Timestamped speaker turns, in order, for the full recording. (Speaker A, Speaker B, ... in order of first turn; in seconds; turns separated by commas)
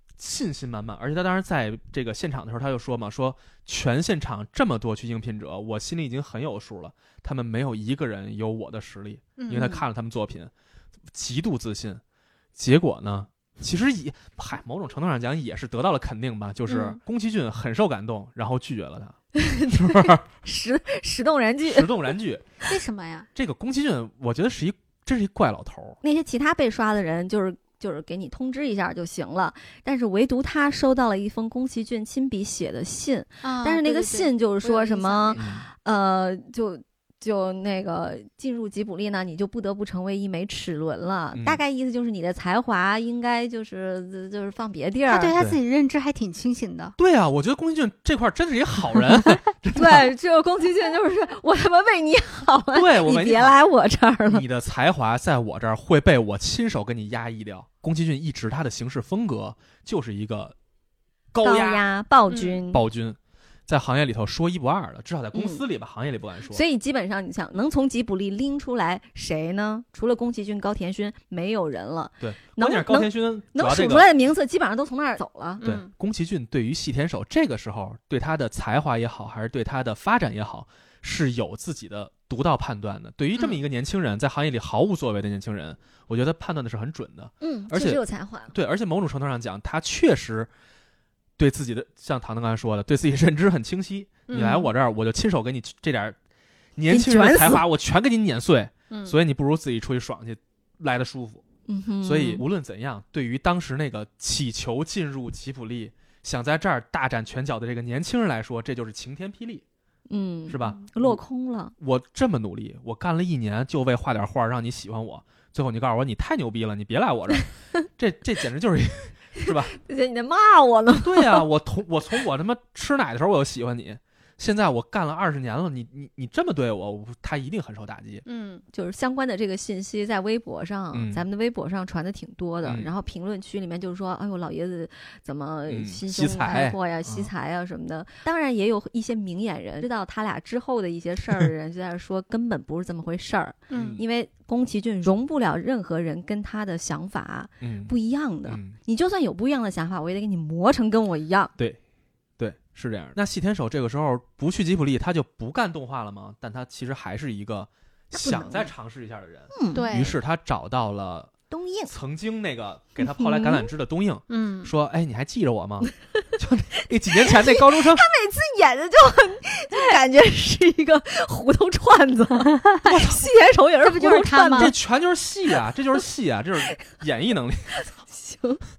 Speaker A: 0.2-10.5, Speaker B: 9.4-9.8, Speaker A: 11.1-12.0, Speaker A: 12.6-19.2, Speaker B: 16.7-17.0, Speaker C: 19.4-21.9, Speaker A: 19.7-20.2, Speaker A: 21.7-22.4, Speaker B: 22.7-23.3, Speaker A: 23.4-26.0, Speaker C: 26.0-45.4, Speaker B: 33.4-35.4, Speaker A: 35.4-35.7, Speaker A: 41.3-41.6, Speaker B: 45.1-46.9, Speaker A: 47.0-50.1, Speaker C: 49.7-54.4, Speaker A: 52.7-53.6, Speaker A: 54.3-60.5, Speaker A: 61.3-61.9, Speaker C: 61.4-62.8, Speaker B: 62.3-62.6, Speaker A: 62.7-66.6, Speaker C: 65.3-65.6, Speaker C: 66.5-75.6, Speaker A: 72.2-74.1, Speaker B: 75.6-75.9, Speaker A: 75.6-90.5, Speaker C: 87.4-88.6, Speaker A: 91.4-96.2, Speaker B: 94.3-94.6, Speaker C: 94.3-94.7, Speaker A: 96.8-101.4, Speaker C: 96.9-97.6, Speaker C: 101.7-102.4, Speaker A: 102.0-109.6, Speaker C: 110.1-111.7, Speaker A: 110.5-111.2, Speaker A: 111.8-119.8, Speaker C: 119.4-121.4, Speaker A: 121.0-128.2, Speaker B: 128.2-128.6, Speaker C: 128.7-151.5, Speaker A: 130.9-131.2, Speaker A: 135.7-137.3, Speaker B: 143.7-144.0, Speaker A: 143.7-144.0, Speaker A: 147.6-147.9, Speaker A: 148.5-148.8, Speaker A: 152.4-161.3, Speaker C: 158.1-158.7, Speaker C: 159.5-159.9, Speaker B: 159.7-160.2, Speaker C: 161.5-161.9, Speaker A: 161.9-168.1, Speaker C: 163.1-163.7, Speaker B: 164.3-164.7, Speaker C: 167.1-174.7, Speaker B: 172.4-172.9, Speaker A: 172.8-173.3, Speaker B: 173.8-174.7, Speaker A: 174.6-177.8, Speaker C: 178.1-178.6